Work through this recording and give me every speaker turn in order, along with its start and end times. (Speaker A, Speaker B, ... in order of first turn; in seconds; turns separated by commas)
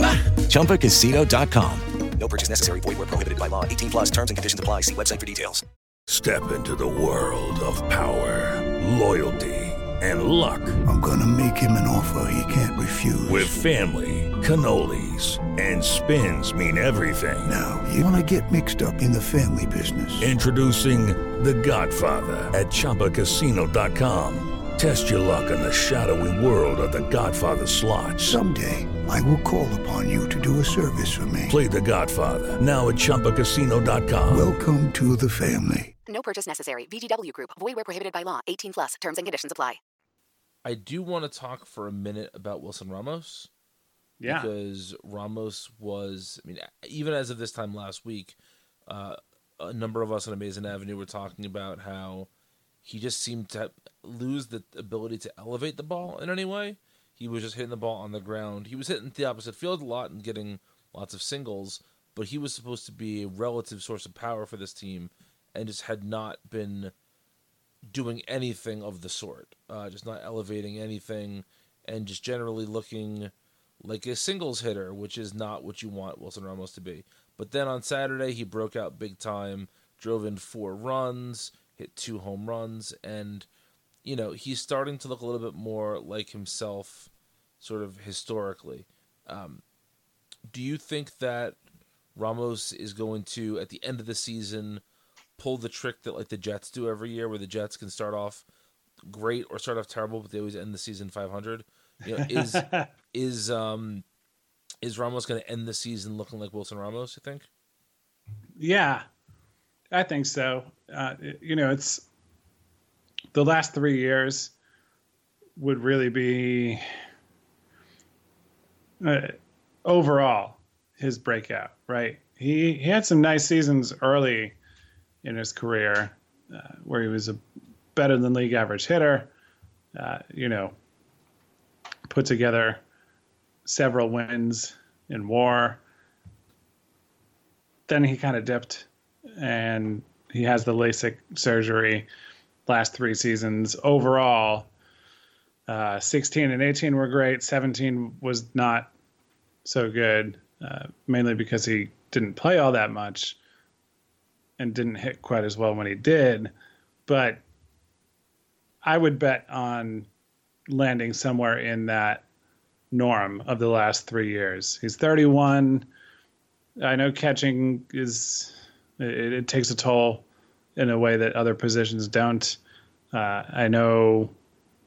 Speaker A: 0.4-5.6, Speaker B: 6.1-10.8, Speaker C: 10.8-13.6, Speaker B: 13.3-17.6, Speaker C: 17.5-20.4, Speaker B: 20.2-28.4, Speaker C: 28.2-31.6, Speaker B: 31.5-34.5, Speaker C: 34.3-35.9, Speaker D: 36.1-39.8, Speaker E: 40.6-43.5, Speaker F: 44.2-44.5, Speaker E: 44.3-52.3, Speaker E: 52.8-66.9, Speaker E: 67.9-83.5, Speaker E: 84.0-89.6, Speaker E: 90.5-91.6, Speaker E: 92.2-94.8, Speaker E: 95.4-98.4, Speaker E: 99.1-104.0, Speaker F: 102.2-102.9, Speaker E: 104.8-107.5, Speaker F: 108.6-109.1, Speaker F: 109.9-112.0, Speaker F: 113.3-114.5, Speaker F: 115.6-116.8, Speaker F: 119.0-124.6, Speaker F: 125.2-127.4, Speaker F: 128.0-129.3, Speaker F: 130.0-130.8, Speaker F: 132.1-132.8, Speaker F: 133.7-135.8, Speaker F: 137.9-142.1, Speaker F: 142.7-144.7, Speaker F: 145.7-148.9, Speaker F: 149.7-153.4, Speaker F: 154.6-156.5, Speaker F: 157.1-157.4, Speaker F: 158.8-160.1, Speaker F: 160.7-162.2, Speaker F: 162.9-165.9, Speaker F: 166.8-170.2, Speaker F: 170.8-172.6, Speaker F: 173.1-174.3